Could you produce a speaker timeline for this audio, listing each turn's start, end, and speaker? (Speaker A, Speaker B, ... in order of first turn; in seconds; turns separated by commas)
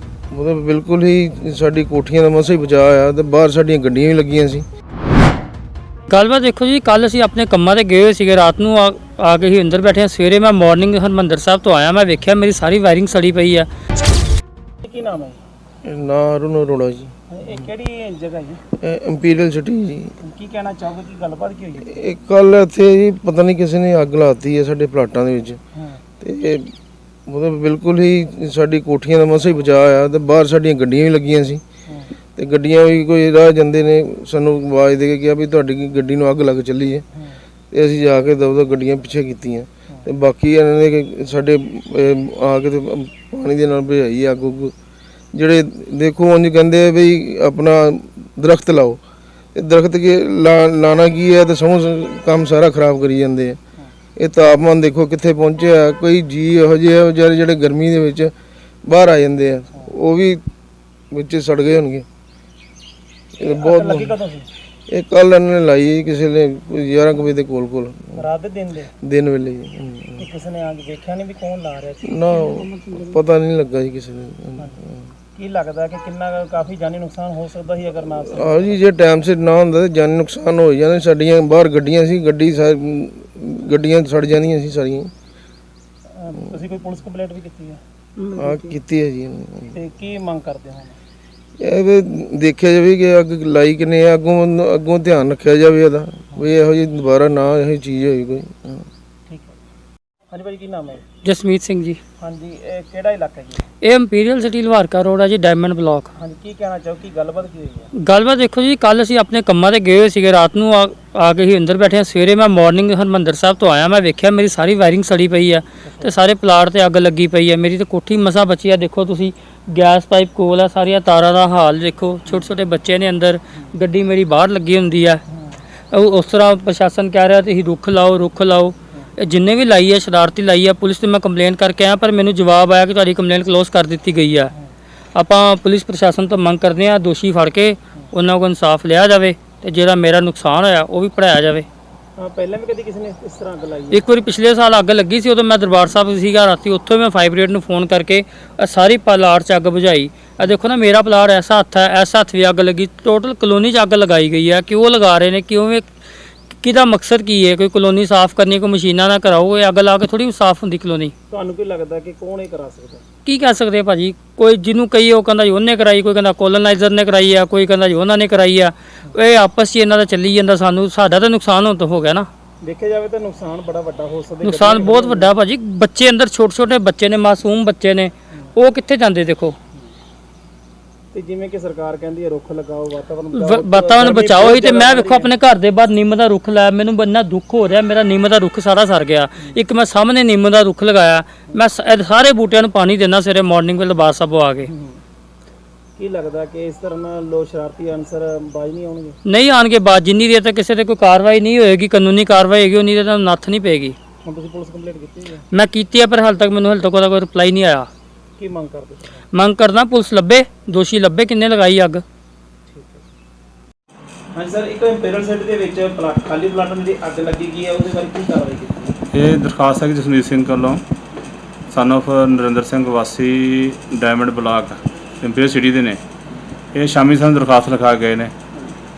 Speaker A: 0.3-4.6, Speaker B: 6.1-13.7, Speaker C: 14.8-15.4, Speaker A: 15.8-17.1, Speaker C: 17.3-18.6, Speaker A: 18.7-20.1, Speaker C: 20.2-22.0, Speaker A: 21.9-25.6, Speaker C: 25.7-26.0, Speaker A: 26.2-26.7, Speaker A: 27.3-31.6, Speaker C: 31.9-32.1, Speaker A: 32.4-37.0, Speaker A: 37.7-44.7, Speaker A: 45.3-49.0, Speaker A: 49.5-53.6, Speaker A: 54.1-58.3, Speaker A: 58.8-60.4, Speaker A: 61.1-62.0, Speaker A: 63.4-64.2, Speaker C: 63.4-64.5, Speaker A: 64.9-68.2, Speaker C: 68.1-68.9, Speaker A: 69.0-70.2, Speaker C: 70.2-72.2, Speaker A: 72.0-75.0, Speaker B: 72.3-73.2, Speaker C: 75.3-78.8, Speaker A: 78.1-85.1, Speaker C: 86.1-87.8, Speaker B: 88.2-88.8, Speaker A: 88.4-89.8, Speaker C: 89.7-91.0, Speaker A: 91.6-98.8, Speaker C: 99.3-99.5, Speaker C: 100.3-101.0, Speaker B: 101.2-102.0, Speaker C: 102.2-103.6, Speaker B: 103.8-106.1, Speaker C: 106.1-107.9, Speaker B: 108.0-125.2, Speaker C: 115.8-116.1, Speaker C: 125.3-125.6, Speaker B: 125.9-134.5, Speaker B: 135.1-141.7, Speaker C: 142.2-144.0, Speaker B: 143.9-155.9, Speaker B: 156.5-161.1, Speaker C: 161.3-163.0, Speaker B: 163.2-172.3, Speaker C: 172.6-175.3, Speaker B: 174.4-179.6, Speaker C: 181.1-185.3, Speaker B: 183.3-194.7, Speaker C: 194.7-195.0, Speaker C: 196.0-199.2, Speaker B: 199.2-203.9, Speaker C: 204.2-205.4, Speaker B: 205.5-207.9, Speaker C: 208.4-209.2, Speaker B: 209.3-212.0, Speaker C: 212.7-213.0, Speaker C: 214.3-218.9, Speaker D: 219.1-220.8, Speaker D: 221.7-226.0, Speaker D: 226.7-228.3